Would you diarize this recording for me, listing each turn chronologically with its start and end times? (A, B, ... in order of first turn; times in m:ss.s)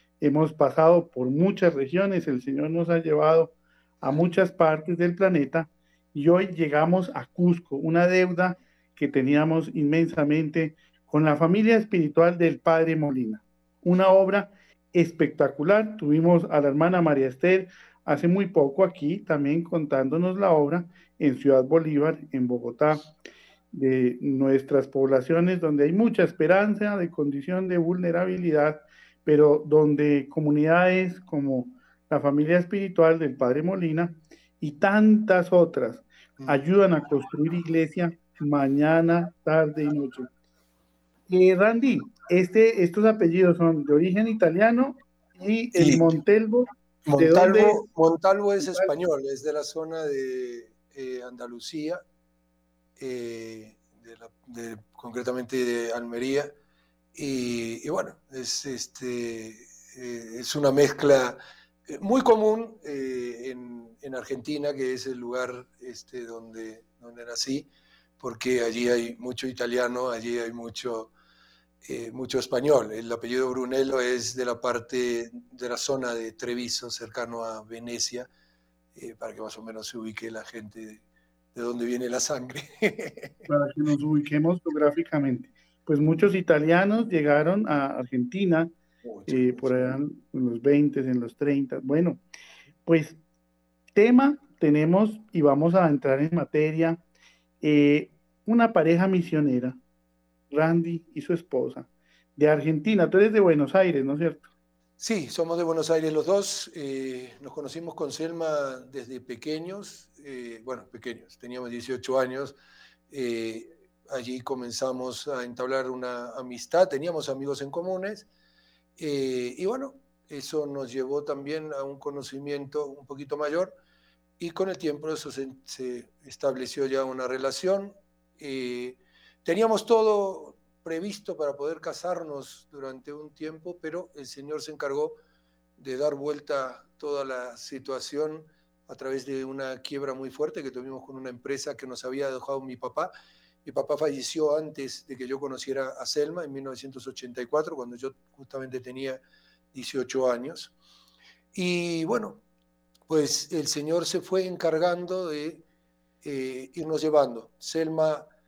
0:00.2-0:23.1 A
0:23.7-0:40.3 A
0:41.3-0:47.8 A
0:45.8-0:46.2 B
0:47.1-0:52.0 B
0:48.6-0:48.9 A
0:53.0-0:56.5 B
0:57.2-1:11.1 B
1:11.8-1:18.3 B
1:19.0-1:23.5 B
1:23.5-1:28.7 A
1:29.0-1:29.9 B
1:29.3-1:32.2 A
1:32.9-1:33.2 A
1:34.0-1:37.0 A
1:37.6-1:39.8 A
1:40.5-1:44.5 A
1:45.0-1:52.6 B
1:53.1-1:58.3 B
1:59.0-2:03.8 B
2:04.4-2:15.2 B
2:15.8-2:23.1 B
2:23.6-2:29.2 B
2:29.7-2:30.7 B
2:31.5-2:32.4 B
2:33.1-2:35.6 B
2:36.2-2:38.3 B